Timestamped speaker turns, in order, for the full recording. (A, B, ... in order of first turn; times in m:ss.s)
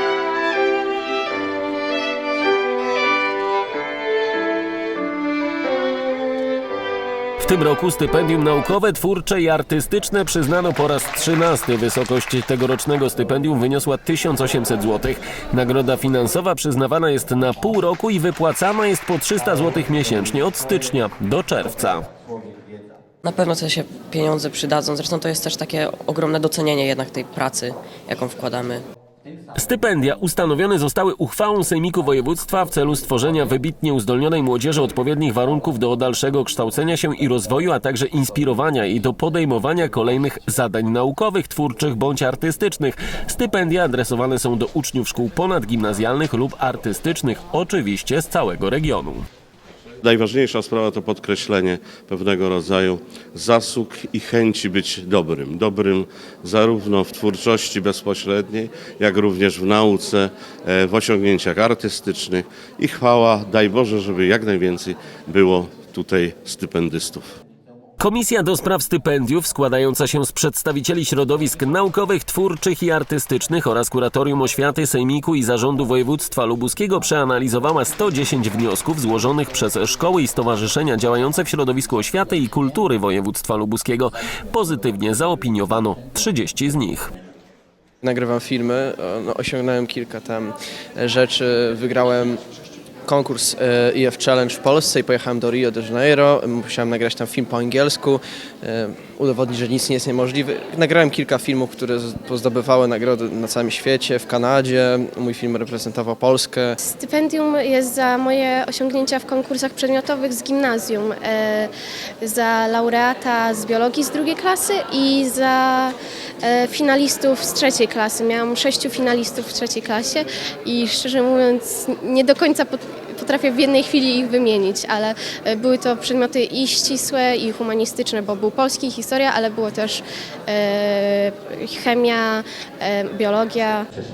0:07.4-0:22.0 A
0:23.2-0:28.8 B
0:29.6-0:49.2 A
0:50.0-1:07.3 C
1:08.0-1:27.1 A
1:28.0-1:32.4 D
1:33.0-1:46.8 D
1:46.8-1:51.7 E
1:52.2-2:13.9 E